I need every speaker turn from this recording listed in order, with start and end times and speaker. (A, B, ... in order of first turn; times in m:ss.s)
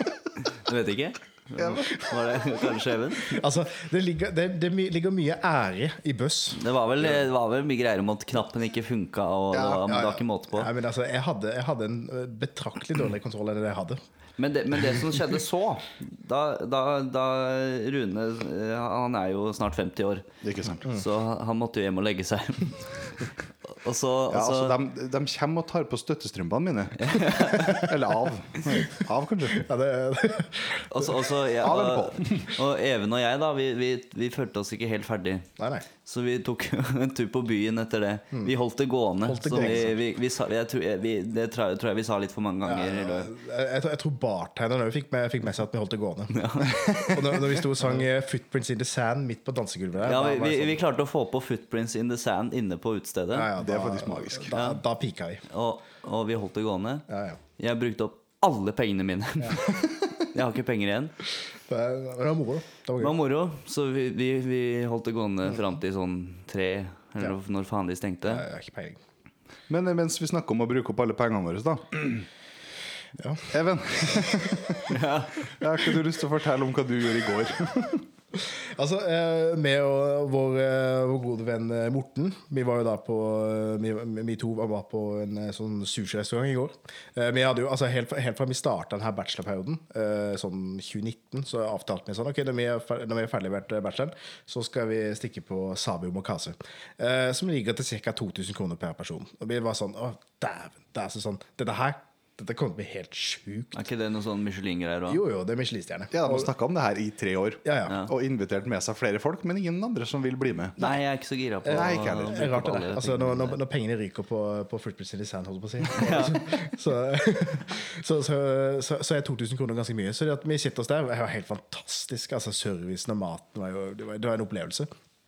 0:00.6-0:03.4 A
0:03.2-0:06.6 B
0:06.5-0:10.7 A
0:09.6-0:14.0 B
0:14.4-0:20.3 A
0:20.4-0:20.8 C
0:20.8-0:24.8 A
0:24.3-0:29.6 C
0:27.0-0:27.9 A
0:29.5-0:30.9 B
0:30.9-0:35.5 A
0:31.6-0:32.5 C
0:35.6-0:35.8 B
0:36.0-0:43.3 A
0:39.3-0:39.9 B
0:39.5-0:39.9 C
0:42.6-0:46.4 B
0:46.3-0:47.6 A
0:47.0-0:50.8 B
0:50.0-0:53.5 A
0:53.3-0:55.4 B
0:53.6-0:54.5 C
0:54.5-0:54.8 A
0:55.5-1:01.1 A
0:57.1-0:57.4 B
1:01.7-1:03.1 B
1:03.0-1:08.5 A
1:08.3-1:09.0 B
1:09.7-1:12.3 C
1:13.2-1:13.5 B
1:13.5-1:15.0 C
1:14.9-1:15.3 A
1:15.5-1:18.0 C
1:18.4-1:43.7 B
1:43.7-1:45.2 A
1:45.1-1:46.5 B
1:46.1-1:50.8 C
1:47.6-1:48.0 B
1:50.8-1:53.6 A
1:51.6-2:04.9 B
1:51.7-1:52.6 C
1:55.9-1:56.4 A